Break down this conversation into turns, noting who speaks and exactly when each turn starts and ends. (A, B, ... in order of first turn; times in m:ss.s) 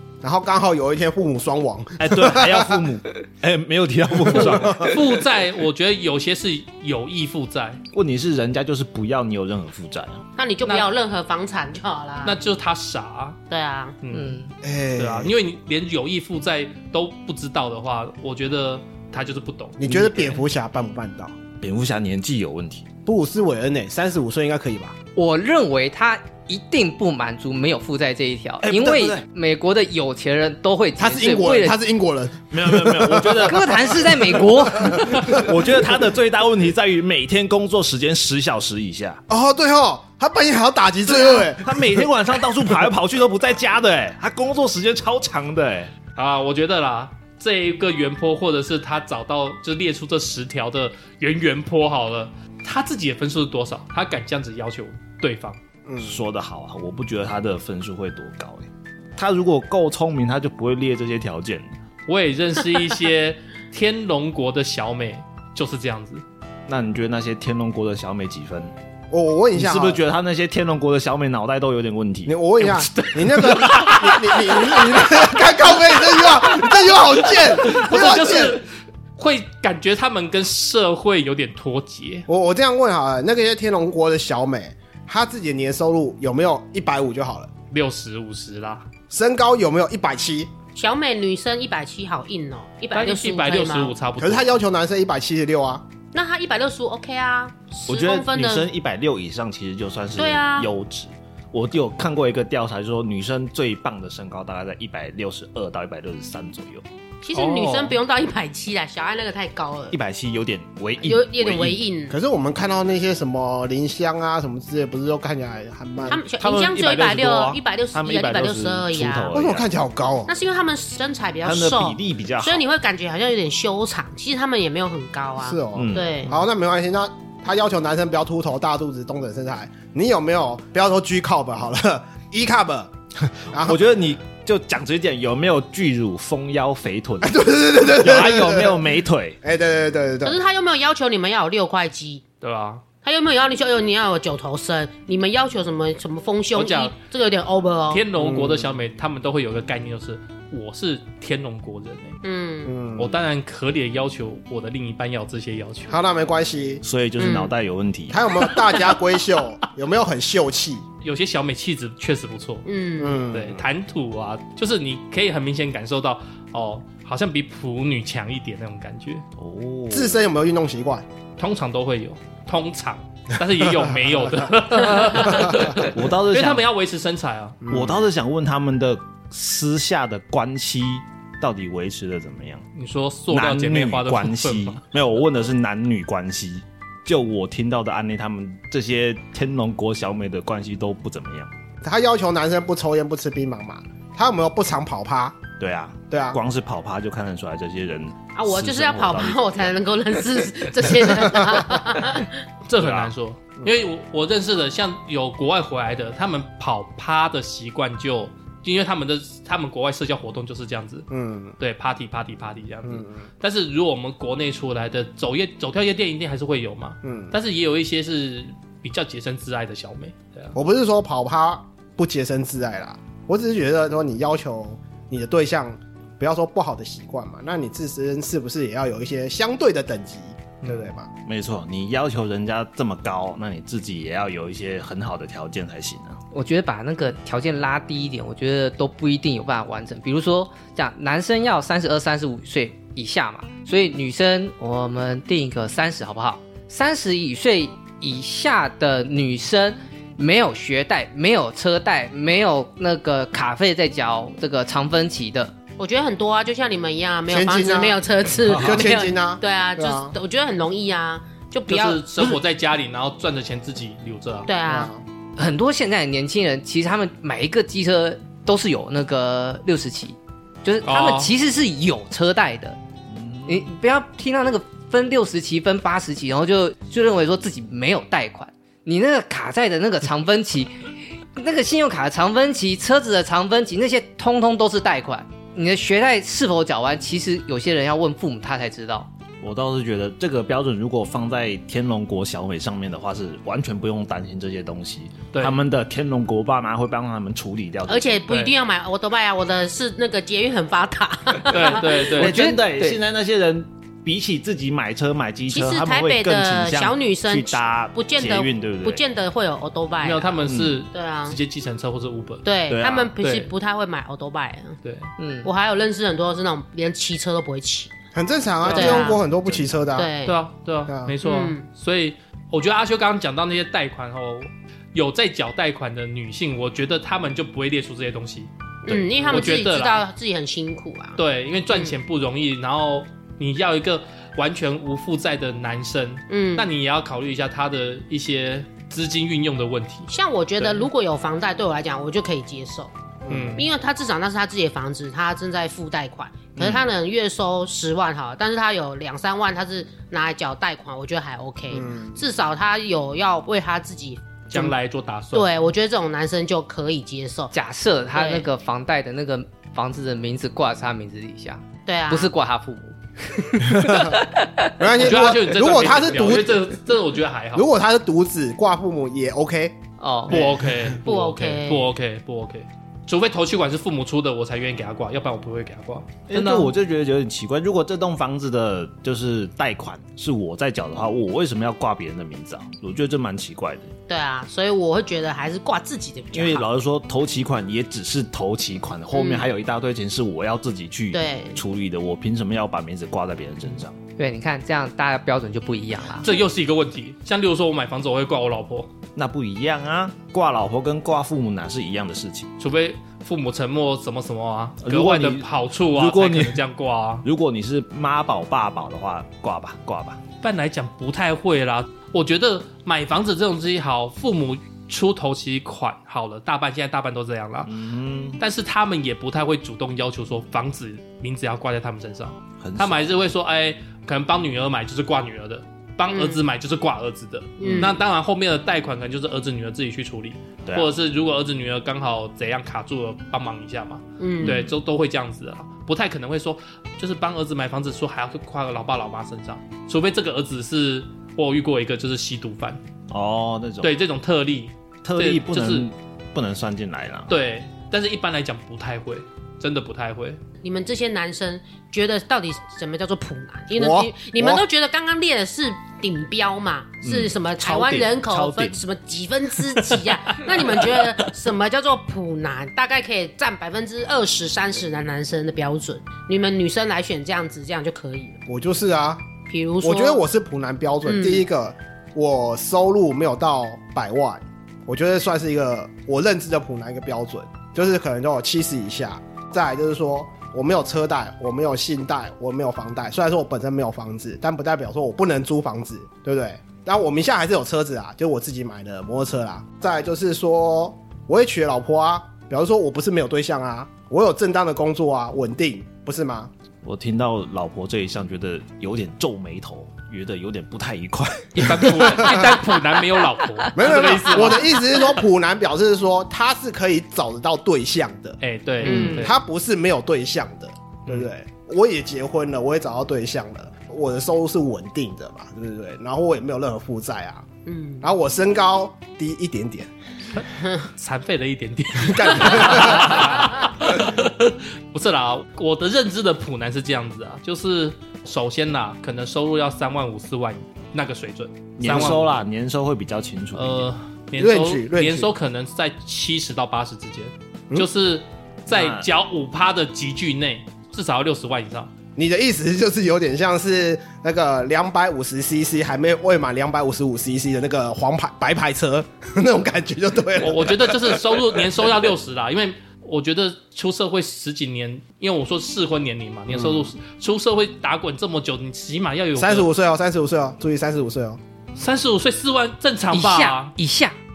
0:00.2-0:02.8 A
0:02.0-0:05.0 B
0:04.3-0:04.9 A
0:04.8-0:07.8 C
0:07.9-0:10.2 B
0:10.4-0:12.4 D
0:12.2-0:13.4 C
0:13.5-0:14.0 D
0:14.0-0:14.4 C
0:14.1-0:14.5 E
0:14.6-0:15.3 A
0:15.0-0:20.4 C
0:19.8-0:21.4 A
0:21.6-0:22.9 B
0:23.0-0:25.0 A
0:25.2-0:31.8 E
0:28.6-0:29.2 B
0:31.0-0:33.5 A
0:32.5-0:39.2 B
0:33.4-0:35.4 E
0:34.8-0:35.4 A
0:39.3-0:42.1 A
0:41.1-0:45.9 B
0:46.2-0:55.6 C
0:55.8-0:56.2 A
0:56.0-1:01.8 B
1:02.1-1:06.2 C
1:06.7-1:08.7 B
1:09.1-1:10.0 A
1:09.5-1:12.4 B
1:12.3-1:18.6 A
1:12.6-1:22.3 C
1:22.3-1:27.5 A
1:27.7-1:28.8 C
1:29.1-1:30.5 A
1:30.7-1:33.9 D
1:32.9-1:34.5 C
1:34.2-1:35.8 A
1:36.1-1:38.7 D
1:37.9-1:46.8 B
1:40.2-1:40.7 D
1:47.2-1:50.0 D
1:47.3-1:48.0 C
1:49.9-1:51.8 B
1:51.0-1:52.2 D
1:52.1-1:56.2 A
1:56.1-1:59.3 D
1:56.1-1:59.7 B
1:59.3-2:00.3 A
2:00.3-2:06.3 D
2:01.4-2:02.6 B
2:05.4-2:12.9 A
2:05.7-2:06.2 B
2:13.5-2:13.8 A
2:13.6-2:17.4 B
2:17.2-2:18.8 A
2:18.0-2:19.4 B
2:19.4-2:20.4 A
2:20.2-2:22.2 D
2:22.4-2:22.8 C
2:23.0-2:28.0 D
2:26.5-2:26.9 C
2:27.9-2:32.2 C
2:28.1-2:28.7 A
2:32.2-2:32.7 D
2:32.6-2:33.2 A
2:33.0-2:36.0 C
2:35.9-2:36.8 A
2:36.8-2:38.2 B
2:37.2-2:37.5 D
2:38.1-2:40.8 A
2:38.4-2:39.0 C
2:41.0-2:42.7 C
2:42.6-2:43.2 D
2:43.0-2:43.6 A
2:43.3-2:49.2 C
2:49.4-2:50.2 B
2:49.9-2:51.0 A
2:51.4-2:57.6 C
2:55.7-2:56.7 B
2:57.6-2:58.0 A
2:57.7-3:02.6 B
3:02.8-3:04.8 C
3:03.3-3:11.5 B
3:11.8-3:15.5 A
3:15.6-3:19.7 B
3:16.1-3:16.4 A
3:18.3-3:22.4 D
3:22.7-3:31.1 C
3:22.8-3:23.1 B
3:31.1-3:31.6 A
3:31.6-3:40.5 C
3:32.8-3:33.2 A
3:37.0-3:37.3 A
3:40.5-3:51.1 A
3:50.6-3:50.9 C
3:51.2-3:56.2 B
3:56.3-4:15.5 E
4:15.8-4:22.4 D
4:17.3-4:20.1 A
4:21.7-4:24.5 C
4:24.5-4:24.9 D
4:24.6-4:25.0 A
4:25.4-4:32.8 E
4:30.8-4:31.3 C
4:33.1-4:33.7 B
4:33.4-4:40.7 E
4:41.4-4:49.1 E
4:49.4-4:58.2 B
4:55.3-4:55.6 C
4:57.9-5:02.1 D
4:58.3-4:58.5 C
5:01.4-5:02.4 C
5:02.1-5:09.0 B
5:02.2-5:03.0 E
5:05.5-5:11.4 D
5:10.0-5:12.4 C
5:10.4-5:10.8 B
5:12.4-5:14.8 D
5:12.7-5:13.1 B
5:13.2-5:13.5 C
5:14.8-5:15.1 C
5:15.2-5:15.5 E
5:15.4-5:17.9 D
5:18.1-5:20.1 A
5:18.6-5:19.1 C
5:18.6-5:19.2 D
5:19.4-5:19.8 B
5:19.9-5:20.4 D
5:20.2-5:30.0 C
5:20.9-5:21.2 A
5:21.2-5:21.6 D
5:28.8-5:31.2 D
5:31.2-5:40.9 C
5:31.7-5:32.0 D
5:36.3-5:36.7 D
5:40.1-5:42.9 D
5:43.2-5:43.6 A
5:43.3-5:43.6 C
5:43.6-5:54.7 D
5:51.7-5:52.2 A
5:54.5-5:55.6 C
5:55.3-5:57.5 D
5:57.5-6:04.7 E
5:58.1-5:58.5 D
6:01.8-6:02.3 D
6:03.6-6:04.2 A
6:04.8-6:06.8 A
6:04.9-6:07.7 C
6:07.5-6:09.8 A
6:10.0-6:10.4 E
6:10.3-6:16.7 C
6:10.4-6:10.9 A
6:11.0-6:11.9 D
6:16.3-6:23.9 B
6:24.1-6:26.7 D
6:26.3-6:34.0 B
6:29.1-6:29.5 D
6:31.1-6:31.6 D
6:34.2-6:36.3 E
6:36.2-6:38.9 C
6:39.2-6:42.5 B
6:42.6-6:47.2 C
6:44.8-6:46.6 B
6:47.2-6:50.2 B
6:50.4-6:57.7 C
6:57.6-6:58.4 B
6:58.4-7:22.8 C
7:02.6-7:03.2 B
7:06.1-7:06.5 D
7:07.6-7:08.0 D
7:07.6-7:07.9 B
7:10.6-7:10.9 B
7:14.2-7:14.6 D
7:14.4-7:14.7 B
7:23.1-7:23.9 B
7:23.8-7:25.9 C
7:25.0-7:27.4 B
7:27.3-7:30.4 C
7:30.6-7:48.4 D
7:33.7-7:34.6 A
7:37.0-7:38.8 B
7:40.4-7:41.1 B
7:48.5-7:49.2 A
7:49.5-7:50.2 D
7:49.8-8:16.5 A
7:51.0-7:51.4 D
8:16.8-8:23.0 B
8:21.6-8:25.0 C
8:23.7-8:37.4 A
8:28.4-8:29.4 C
8:28.8-8:29.3 D
8:37.6-8:38.0 D
8:38.0-8:39.9 A
8:40.4-8:52.4 C
8:42.0-8:43.4 A
8:51.8-8:53.9 B
8:53.5-9:01.9 C
8:54.4-8:55.3 A
8:58.7-8:59.1 B
9:02.2-9:11.5 A
9:10.4-9:19.7 C
9:16.5-9:16.9 A
9:19.4-9:21.4 A
9:21.8-9:23.7 C
9:23.1-9:24.1 E